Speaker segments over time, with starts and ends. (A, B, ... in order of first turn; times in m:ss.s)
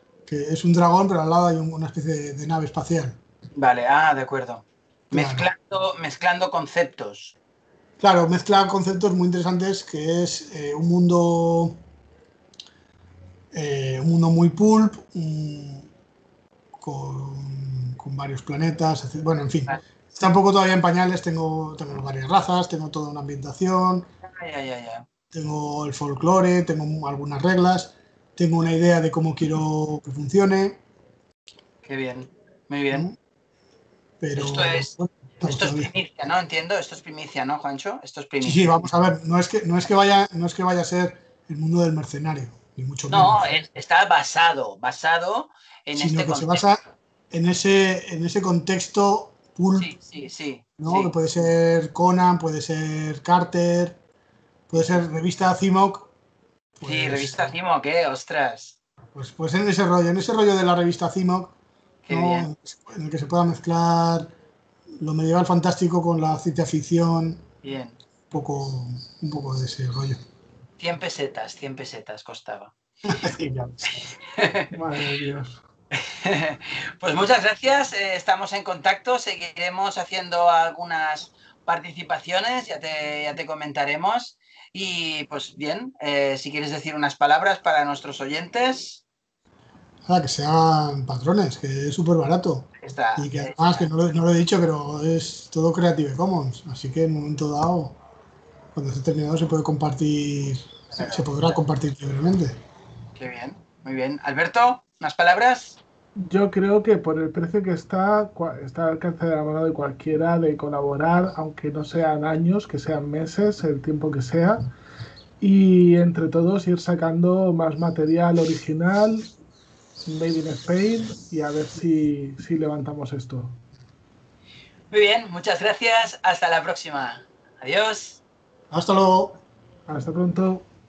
0:00.3-0:03.2 A
0:03.5-0:07.3 B
0:05.1-0:05.5 A
0:08.0-0:11.8 A
0:13.5-0:15.9 A
0:16.7-0:24.1 A
0:24.2-0:25.0 B
0:25.3-0:30.8 A
0:31.8-0:33.1 B
0:32.9-0:33.2 A
0:34.2-0:35.9 A
0:34.4-0:34.9 B
0:35.4-0:38.8 B
0:38.4-0:43.5 A
0:43.1-0:46.8 B
0:45.9-0:49.9 A
0:49.8-0:51.1 B
0:50.8-0:54.0 A
0:54.7-0:56.1 A
0:54.7-0:55.0 B
0:56.8-0:57.6 A
0:56.8-0:58.8 B
0:59.1-1:01.5 A
1:02.0-1:02.5 B
1:02.1-1:04.3 A
1:05.0-1:07.4 A
1:07.6-1:08.0 B
1:08.3-1:10.2 A
1:10.8-1:12.7 B
1:13.0-1:14.0 A
1:13.9-1:14.7 B
1:14.7-1:15.6 C
1:15.9-1:29.0 B
1:30.0-1:38.0 A
1:32.8-1:33.9 B
1:38.7-1:42.6 A
1:40.9-1:41.6 B
1:43.2-1:45.8 B
1:46.2-1:54.7 C
1:55.4-1:59.3 C
2:00.0-2:03.6 C
2:04.9-2:08.2 B
2:08.7-2:09.4 A
2:09.9-2:10.6 C